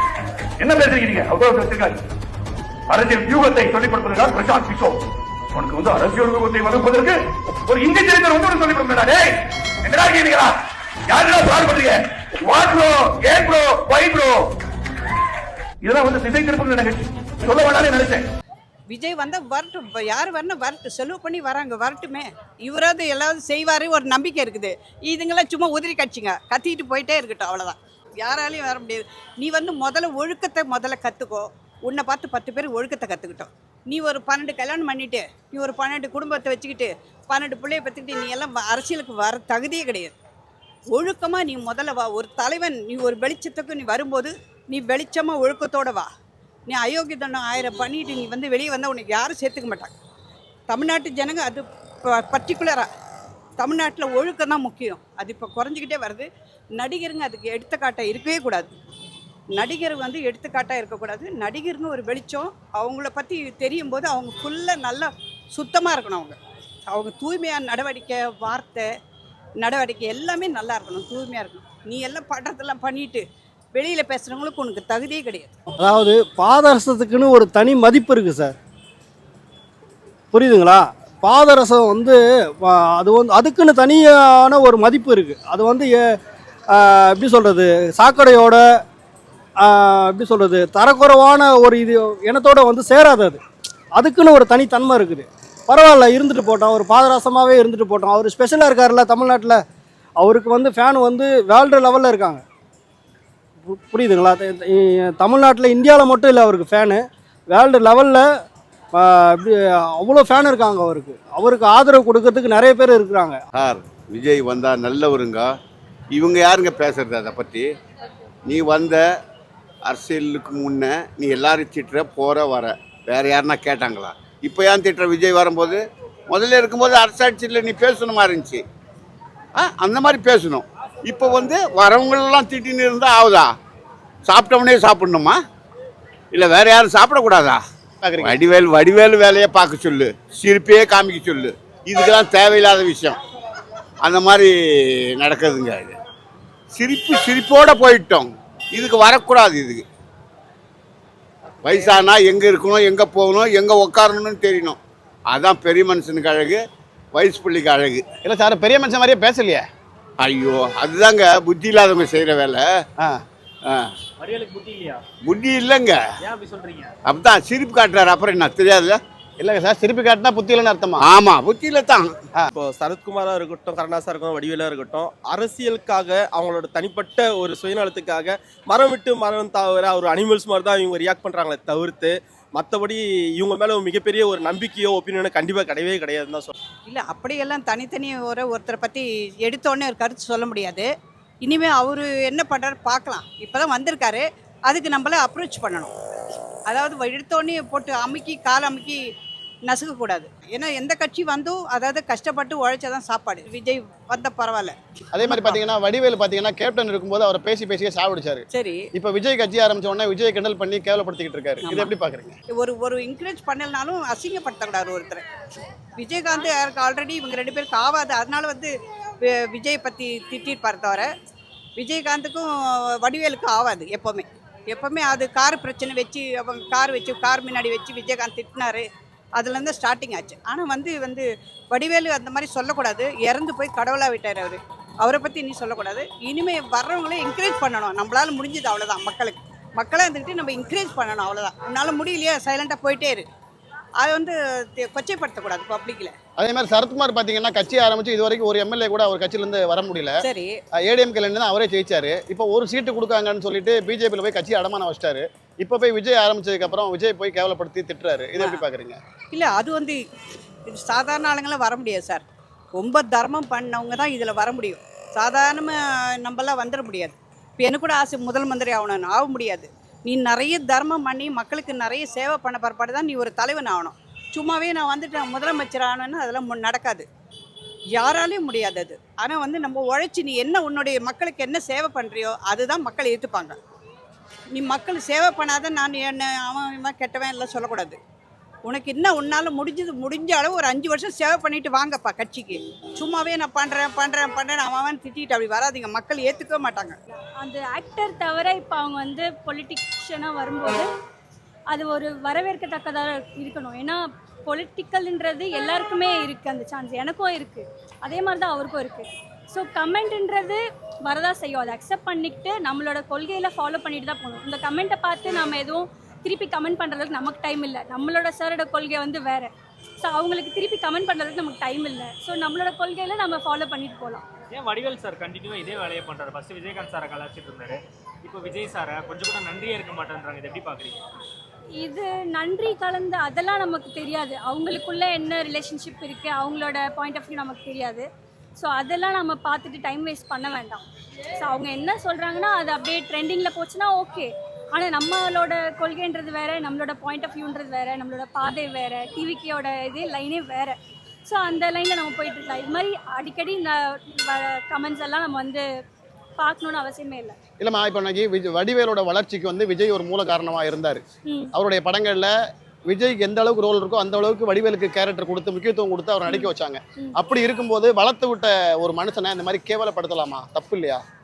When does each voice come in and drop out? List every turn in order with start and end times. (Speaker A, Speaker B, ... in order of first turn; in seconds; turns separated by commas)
Speaker A: 0.6-2.0, Speaker A: 2.9-14.5, Speaker A: 15.8-18.2, Speaker B: 18.9-40.1, Speaker B: 40.9-46.1, Speaker B: 46.7-49.9, Speaker B: 50.7-52.9, Speaker B: 53.6-58.7, Speaker B: 59.6-66.4, Speaker B: 66.9-68.9, Speaker B: 69.6-73.2, Speaker B: 73.7-75.5, Speaker C: 75.8-78.5, Speaker C: 80.3-86.2, Speaker C: 86.7-88.8, Speaker C: 89.6-93.4, Speaker C: 93.9-99.6, Speaker C: 100.2-102.4, Speaker C: 103.6-108.2, Speaker C: 108.9-113.4, Speaker D: 113.5-115.5, Speaker D: 116.1-117.7, Speaker D: 118.5-119.0, Speaker D: 119.9-128.6, Speaker D: 129.6-133.5, Speaker D: 134.2-135.4, Speaker D: 136.3-137.6, Speaker E: 138.0-138.4, Speaker D: 138.2-143.2, Speaker D: 144.0-144.5, Speaker D: 145.1-145.9, Speaker D: 146.7-149.8, Speaker D: 151.6-154.8, Speaker D: 155.3-156.6, Speaker D: 157.1-158.0, Speaker E: 158.2-159.6, Speaker D: 160.2-162.7, Speaker F: 164.2-165.0, Speaker D: 165.2-166.0, Speaker F: 166.2-166.9, Speaker D: 167.1-169.0, Speaker E: 169.4-171.0, Speaker D: 171.0-172.1, Speaker G: 172.5-186.5, Speaker B: 186.9-190.9, Speaker B: 191.4-195.9, Speaker B: 196.7-199.0, Speaker B: 199.7-205.6, Speaker E: 205.1-212.4, Speaker B: 208.5-208.8, Speaker B: 211.6-211.9, Speaker B: 212.5-215.2, Speaker B: 216.0-218.7, Speaker B: 219.2-221.1, Speaker B: 221.8-228.8, Speaker B: 229.4-243.3, Speaker B: 244.0-246.1, Speaker E: 246.4-250.2, Speaker B: 250.2-250.6, Speaker E: 250.9-259.0, Speaker B: 259.3-260.0, Speaker B: 260.7-262.2, Speaker B: 262.8-277.1, Speaker B: 278.0-283.6, Speaker B: 284.5-288.0, Speaker B: 288.7-297.0, Speaker H: 297.4-300.9, Speaker H: 301.7-324.2, Speaker F: 324.5-331.1, Speaker H: 331.8-340.8, Speaker H: 341.4-355.7, Speaker H: 356.4-357.4, Speaker E: 357.6-361.0, Speaker H: 361.2-361.5, Speaker E: 361.5-362.3, Speaker E: 362.9-371.0, Speaker H: 366.3-367.1